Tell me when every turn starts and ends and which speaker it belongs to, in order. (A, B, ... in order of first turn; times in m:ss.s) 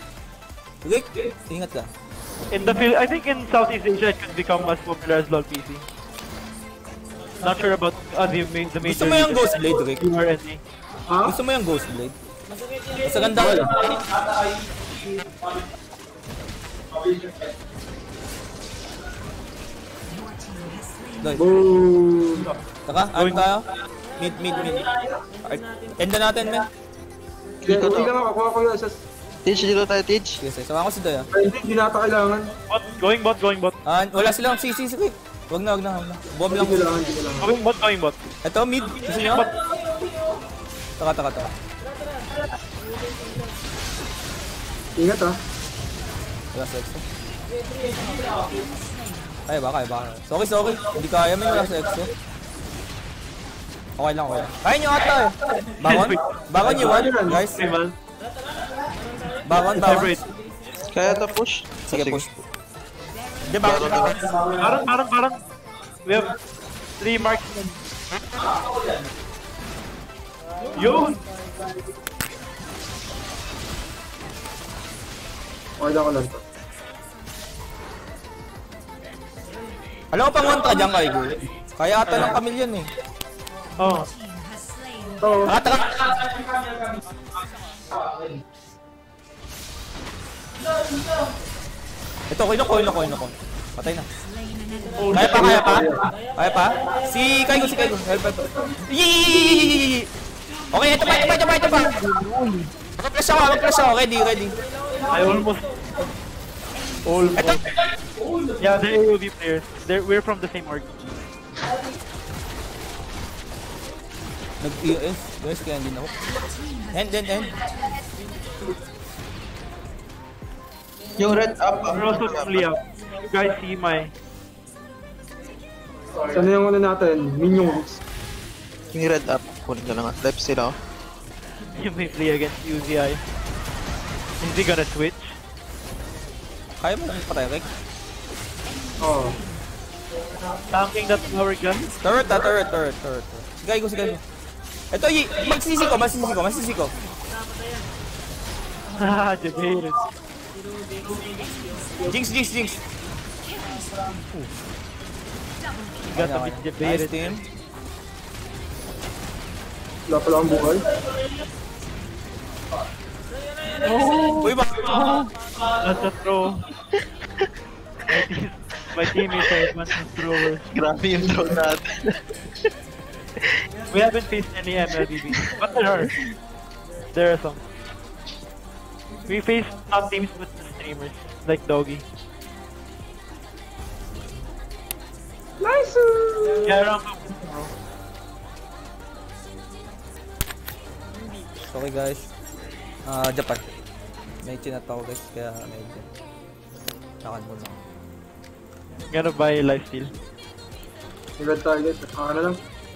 0:00.8-0:01.9 A
0:02.5-0:05.8 B
0:07.4-0:10.6 B
0:08.8-0:10.0 A
0:11.1-0:11.4 C
0:11.2-0:12.1 A
0:13.0-0:14.1 A
0:13.3-0:13.7 C
0:21.4-0:22.5 C
0:22.8-0:26.7 A
0:23.2-0:23.4 B
0:27.6-0:28.1 D
0:27.6-0:29.0 C
0:29.4-0:30.4 D
0:30.4-0:31.3 A
0:31.3-0:32.5 C
0:32.7-0:33.8 B
0:33.8-0:37.1 A
0:36.5-0:37.5 C
0:37.4-0:38.2 B
0:38.4-0:39.5 A
0:41.0-0:41.5 A
0:45.0-0:45.4 C
0:46.5-0:47.0 A
0:49.5-0:52.1 A
0:54.0-0:57.7 A
0:55.8-0:57.9 B
0:56.6-0:57.4 C
0:59.4-1:00.2 A
0:59.9-1:00.1 B
1:00.9-1:02.2 D
1:01.9-1:02.4 A
1:03.4-1:04.4 A
1:03.6-1:04.3 D
1:04.6-1:05.4 B
1:06.0-1:06.3 B
1:07.0-1:07.8 B
1:10.7-1:11.2 B
1:15.8-1:16.4 C
1:20.1-1:22.9 A
1:23.8-1:24.1 B
1:25.2-1:25.5 C
1:25.4-1:26.3 A
1:32.3-1:34.1 A
1:35.0-1:35.6 B
1:35.1-1:40.1 A
1:35.1-1:36.0 C
1:40.7-1:42.0 A
1:41.6-1:42.7 B
1:43.0-1:44.6 A
1:45.1-1:45.9 B
1:47.0-1:47.7 B
1:47.3-1:47.6 A
1:48.6-1:51.0 B
1:54.6-1:56.3 A
1:56.9-1:57.6 A
2:01.2-2:02.7 D
2:01.9-2:04.1 B
2:06.3-2:08.0 C
2:08.9-2:10.8 D
2:11.7-2:13.2 B
2:14.4-2:15.3 B
2:16.8-2:17.7 A
2:19.0-2:19.4 C
2:20.7-2:21.9 B
2:22.0-2:24.2 A
2:24.9-2:26.9 A
2:29.0-2:30.0 B
2:32.0-2:32.8 A
2:36.1-2:37.3 B
2:36.1-2:37.4 A
2:40.1-2:40.8 C
2:43.8-2:44.5 B
2:44.4-2:45.1 A
2:45.7-2:46.6 B
2:48.1-2:50.7 B
2:49.3-2:49.6 D
2:50.7-2:52.2 D
2:53.9-2:56.1 B
2:57.1-2:57.6 B
2:59.3-3:02.0 B
3:05.6-3:06.7 C
3:06.6-3:07.7 B
3:11.7-3:12.2 A
3:13.0-3:13.6 A
3:14.4-3:16.0 A
3:17.2-3:17.8 A
3:19.1-3:20.1 B
3:21.4-3:22.6 C